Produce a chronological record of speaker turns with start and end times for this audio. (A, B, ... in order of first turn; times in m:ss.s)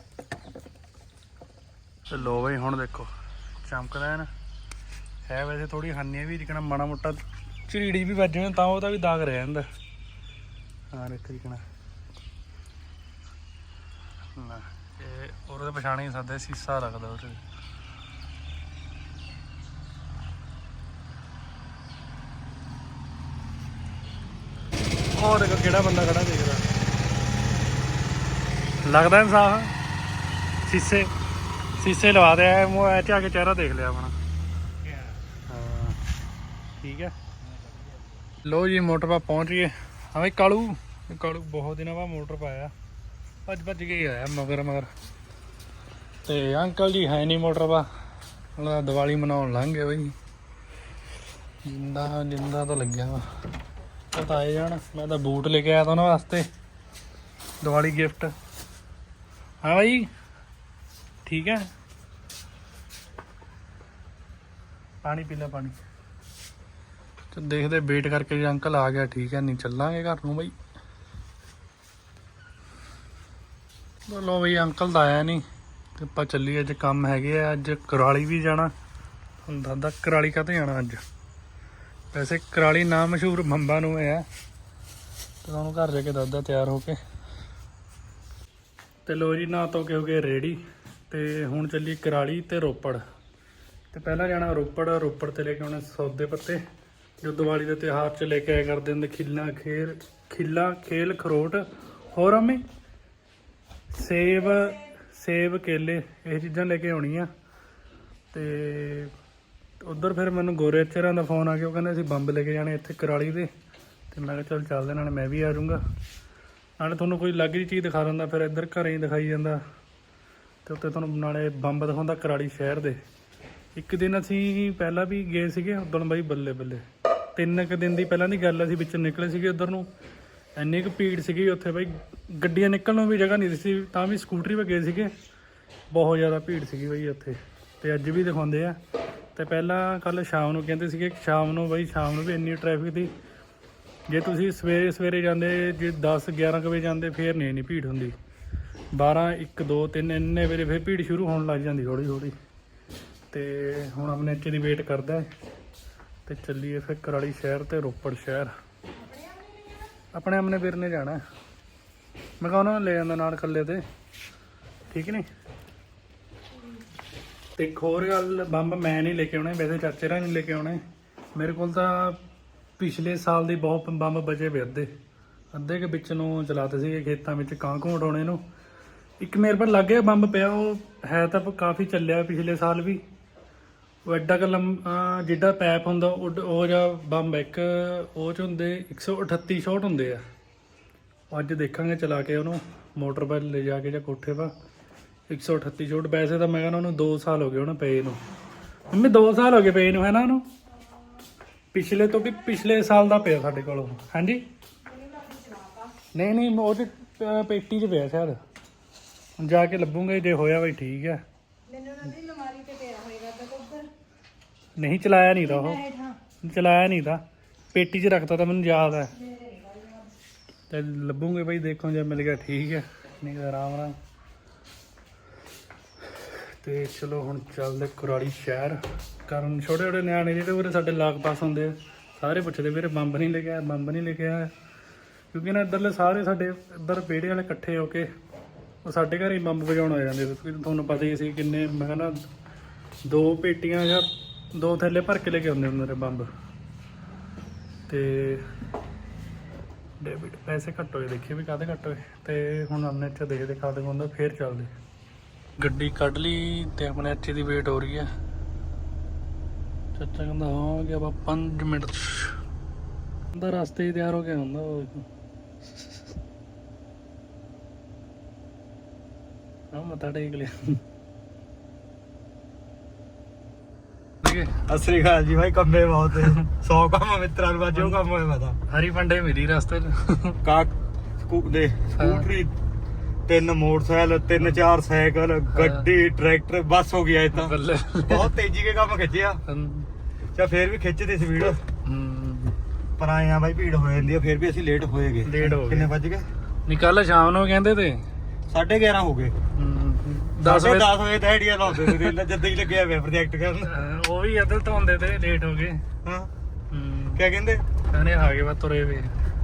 0:02.1-0:04.3 A
0:05.3-0:09.7 A
0:10.9-0:11.6 A
0:14.4-0:17.4 A
0:25.1-0:26.7 A
0:28.8-0:29.8 A
0:30.6-0:31.1 A
0:31.8-0:34.2 A
0:35.5-0:36.0 A
0:36.8-0:37.2 A
0:38.4-0:42.7 A
0:43.4-0:44.9 A
0:46.2-0:47.9 A
0:48.6-0:50.2 A
0:51.6-0:53.3 A
0:54.1-0:56.5 A
0:57.6-0:58.3 A
0:59.6-1:00.1 A
1:01.2-1:01.7 A
1:05.0-1:05.8 A
1:07.3-1:10.6 A
1:14.1-1:15.4 A
1:16.0-1:18.7 A
1:19.4-1:21.0 A
1:22.1-1:24.3 A
1:25.4-1:27.0 A
1:29.1-1:33.0 A
1:33.9-1:36.6 A
1:37.2-1:42.6 A
1:43.9-1:47.3 A
1:48.3-1:49.1 A
1:49.8-1:53.5 A
1:54.1-1:55.8 A
1:56.8-1:59.6 A
2:00.6-2:03.0 A
2:03.8-2:09.9 A
2:10.6-2:15.1 A
2:15.9-2:18.8 A
2:19.4-2:23.1 A
2:24.1-2:28.2 A
2:28.9-2:32.4 A
2:33.3-2:35.3 A
2:36.3-2:38.5 A
2:39.0-2:39.9 B
2:40.1-2:41.2 A
2:42.4-2:43.8 A
2:44.9-2:45.3 A
2:47.6-2:50.8 A
2:51.4-2:52.2 A
2:52.8-2:54.9 A
2:55.5-2:58.4 A
2:59.2-3:03.0 A
3:04.1-3:10.2 A
3:11.3-3:14.5 A
3:15.3-3:18.2 A
3:18.9-3:20.5 A
3:21.7-3:24.5 A
3:24.8-3:26.0 B
3:26.1-3:28.4 A
3:29.4-3:31.2 A
3:31.7-3:33.9 B
3:34.8-3:35.8 A
3:35.4-3:36.2 B
3:36.4-3:39.2 A
3:39.2-3:40.1 B
3:40.7-3:44.0 A
3:46.3-3:54.5 A
3:55.3-3:58.1 A
3:58.8-4:02.2 A
4:03.0-4:06.3 A
4:07.9-4:08.5 A
4:10.0-4:14.7 A
4:15.6-4:18.1 A
4:20.0-4:22.4 A
4:23.3-4:25.1 A
4:25.6-4:26.1 A
4:29.7-4:30.8 A
4:34.2-4:34.6 A
4:34.7-4:38.6 C
4:38.7-4:40.4 A
4:40.4-4:42.6 C
4:42.0-4:42.3 A
4:43.3-4:49.4 C
4:45.5-4:45.8 A
4:47.4-4:48.3 A
4:49.5-4:49.9 A
4:50.4-4:51.6 C
4:51.8-4:52.6 A
4:53.0-4:56.3 C
4:55.2-4:55.9 A
4:56.7-4:58.1 A
4:58.5-4:59.4 C
4:59.6-5:01.0 A
5:00.4-5:03.7 C
5:01.7-5:02.1 A
5:03.7-5:05.8 A
5:06.0-5:06.3 C
5:06.7-5:07.2 A
5:07.2-5:07.6 C
5:07.9-5:09.2 A